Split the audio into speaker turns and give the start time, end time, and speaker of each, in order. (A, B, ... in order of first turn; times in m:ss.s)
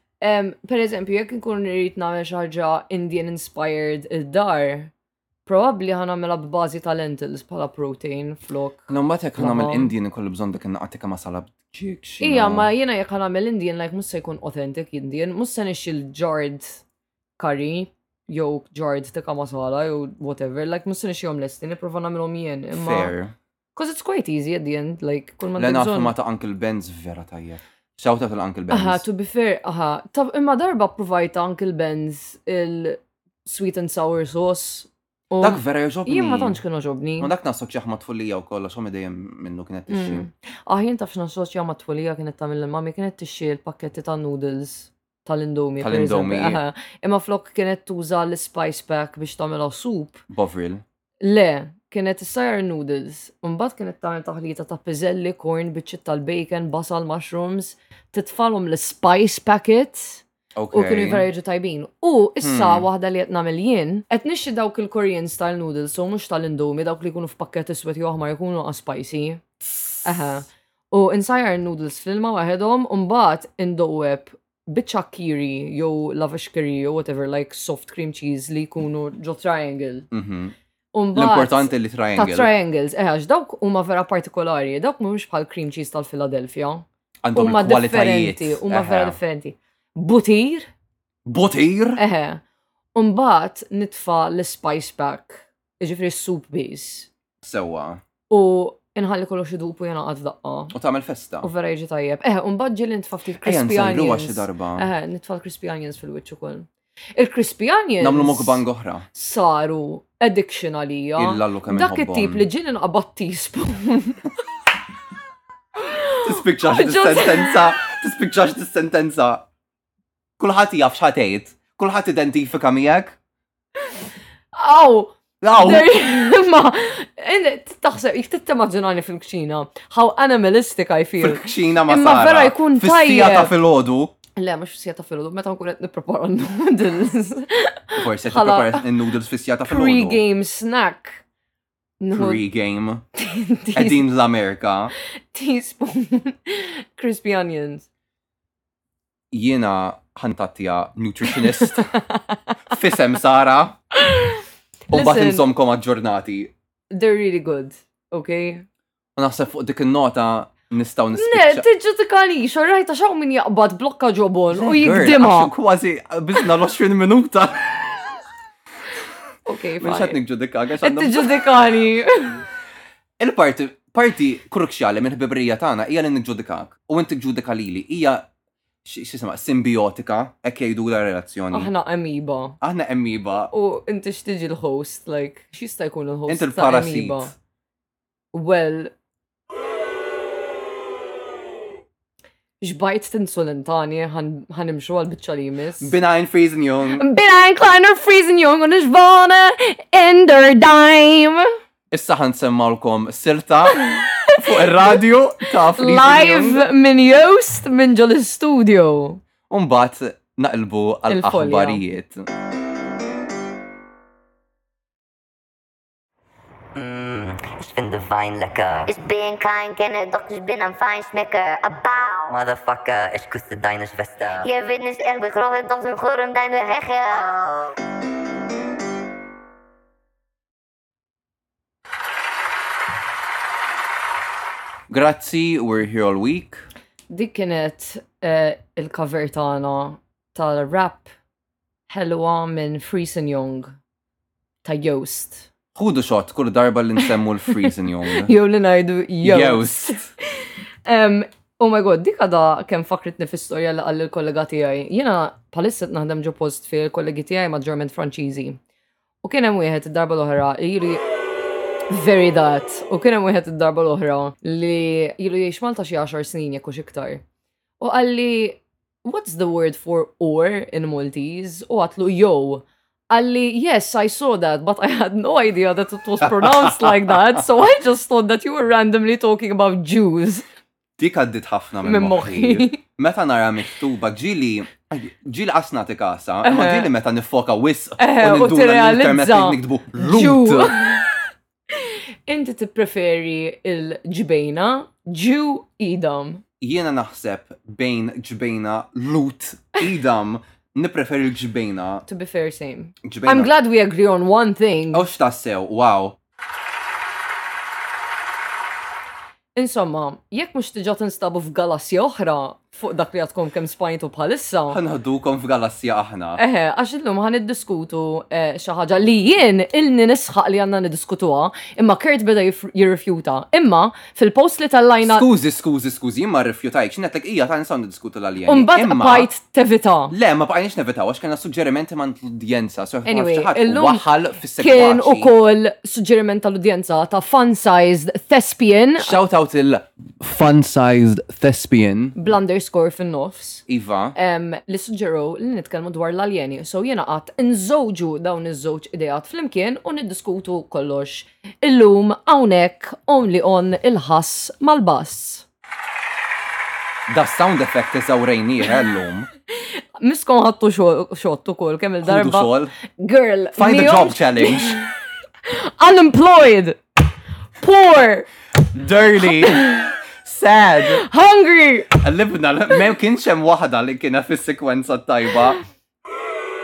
0:00.2-0:04.9 A
0:05.5-0:09.9 A
0:08.9-0:12.7 B
0:12.2-0:16.8 A
0:17.4-0:23.1 A
0:22.7-0:23.4 B
0:23.8-0:26.1 A
0:25.6-0:29.0 B
0:28.7-0:37.3 A
0:35.4-0:36.6 B
0:37.2-0:40.3 B
0:39.9-0:50.2 A
0:45.8-0:46.6 B
0:50.3-0:50.8 B
0:51.2-1:09.4 A
1:00.6-1:01.3 B
1:02.4-1:02.9 B
1:10.0-1:20.1 A
1:20.1-1:20.5 B
1:20.9-1:30.7 A
1:21.1-1:22.5 B
1:27.2-1:29.2 B
1:31.3-1:32.0 B
1:32.0-1:32.4 A
1:33.0-1:37.1 A
1:37.4-1:38.0 B
1:38.3-1:40.7 A
1:40.7-1:41.5 B
1:41.4-1:48.6 A
1:43.4-1:44.9 B
1:48.0-1:49.1 B
1:49.1-1:54.3 A
1:51.2-1:52.5 B
1:55.8-1:57.7 A
1:56.2-1:59.4 B
2:00.4-2:03.2 B
2:04.5-2:13.6 A
2:05.4-2:05.9 B
2:11.2-2:14.2 B
2:14.4-2:18.9 A
2:18.0-2:20.2 B
2:19.6-2:21.2 A
2:22.0-2:22.4 A
2:22.1-2:23.0 B
2:23.2-2:24.1 A
2:23.8-2:24.9 B
2:25.3-2:27.9 A
2:29.3-2:31.9 B
2:31.4-2:32.5 A
2:32.7-2:33.8 B
2:34.0-2:34.4 A
2:34.9-2:36.5 B
2:34.9-2:35.5 A
2:36.9-2:38.6 A
2:39.2-2:41.6 B
2:41.2-2:45.5 A
2:44.5-2:47.9 B
2:49.5-2:50.2 A
2:49.8-2:51.3 B
2:50.8-2:52.4 A
2:53.2-2:58.3 B
2:58.8-3:01.7 B
3:01.5-3:02.6 A
3:02.6-3:03.5 B
3:03.5-3:07.3 A
3:06.3-3:07.3 B
3:08.3-3:08.9 A
3:12.6-3:16.0 A
3:15.8-3:17.0 B
3:16.9-3:21.5 A
3:21.9-3:26.7 B
3:23.8-3:24.9 A
3:25.7-3:29.2 A
3:29.5-3:32.3 B
3:31.1-3:31.8 A
3:36.8-3:38.9 C
3:38.9-3:42.3 D
3:42.3-3:44.5 C
3:44.4-3:47.7 D
3:54.9-3:56.6 B
3:57.1-4:01.1 A
4:01.9-4:03.7 A
4:04.6-4:05.5 A
4:05.8-4:08.3 B
4:08.1-4:18.6 A
4:09.2-4:10.0 B
4:19.2-4:21.0 A
4:21.9-4:27.2 A
4:27.8-4:40.4 A
4:36.2-4:37.1 B
4:41.0-4:50.8 B
4:41.8-4:42.8 A
4:46.4-4:46.9 A
4:48.0-4:51.1 A
4:51.7-4:56.4 A
4:56.6-5:02.1 B
5:02.1-5:05.0 A
5:03.0-5:03.5 B
5:04.9-5:06.2 B
5:09.6-5:14.8 A
5:14.7-5:16.4 B
5:16.4-5:25.3 A
5:25.0-5:29.3 B
5:28.5-5:30.1 A
5:30.1-5:35.3 B
5:33.0-5:39.2 A
5:39.0-5:42.2 B
5:42.2-5:55.4 A
5:43.7-5:44.2 B
5:57.1-5:59.3 B
6:00.0-6:04.9 A
6:02.0-6:02.7 B
6:03.6-6:04.9 B
6:05.4-6:06.8 A
6:07.6-6:08.3 A
6:08.7-6:11.0 B
6:09.4-6:09.9 A
6:10.9-6:11.9 A
6:11.9-6:15.6 B